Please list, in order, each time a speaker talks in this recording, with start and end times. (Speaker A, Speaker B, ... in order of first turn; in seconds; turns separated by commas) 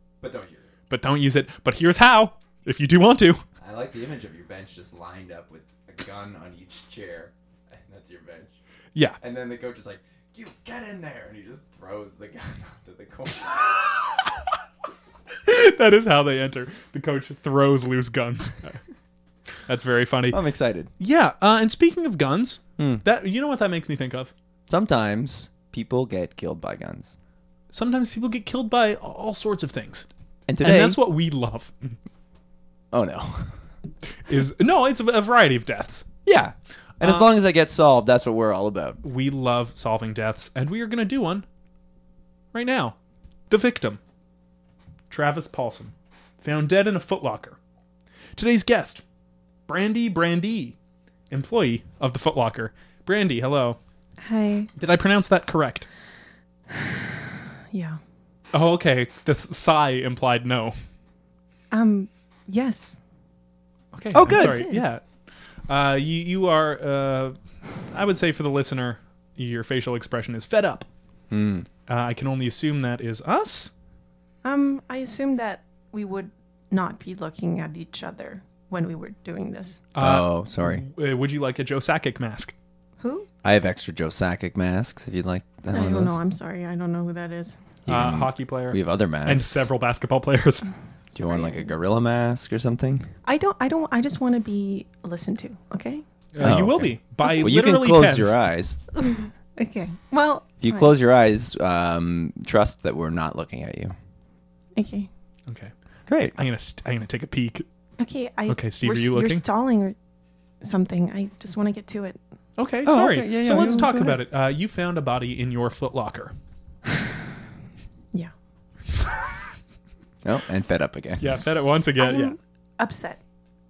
Speaker A: 0.2-0.7, Speaker B: 0.9-3.4, Speaker A: 3.6-8.5, Speaker A: 9.2-14.0, Speaker B: 15.4-18.8, Speaker B: 19.6-20.4, Speaker A: 20.3-20.9, Speaker B: 21.0-24.3, Speaker A: 24.7-27.1, Speaker B: 27.7-30.1, Speaker A: 30.5-31.0, Speaker B: 30.6-31.9, Speaker A: 32.9-33.5, Speaker B: 34.3-36.1, Speaker A: 36.2-39.0, Speaker B: 37.0-37.3, Speaker B: 39.0-41.4, Speaker B: 42.5-42.9, Speaker B: 43.5-44.0, Speaker B: 45.1-47.6, Speaker B: 48.4-49.0, Speaker B: 49.7-50.7, Speaker B: 51.3-53.8, Speaker C: 54.2-54.7, Speaker B: 54.8-55.9, Speaker C: 56.7-58.0, Speaker B: 58.5-60.8, Speaker C: 61.7-63.0, Speaker B: 63.9-65.0, Speaker A: 64.1-64.8, Speaker B: 65.7-67.3, Speaker B: 67.9-70.9, Speaker A: 71.3-71.7, Speaker B: 71.9-73.7, Speaker C: 74.4-79.8, Speaker B: 79.9-82.5, Speaker A: 80.0-80.8, Speaker C: 83.0-83.3, Speaker A: 83.4-86.2, Speaker C: 85.7-87.6, Speaker A: 87.8-89.7, Speaker B: 87.9-90.7, Speaker C: 91.1-91.7, Speaker A: 91.1-93.1, Speaker C: 93.2-96.0, Speaker B: 96.3-98.4, Speaker A: 96.4-98.8, Speaker C: 99.0-100.9, Speaker A: 100.6-103.9, Speaker C: 104.8-105.1, Speaker A: 106.1-106.3, Speaker B: 106.4-107.7, Speaker C: 108.0-110.0, Speaker B: 108.5-109.4, Speaker C: 110.6-112.2, Speaker B: 112.6-116.3, Speaker A: 112.8-114.2, Speaker C: 113.6-113.8, Speaker A: 120.2-121.2, Speaker B: 121.2-122.3, Speaker C: 122.0-123.2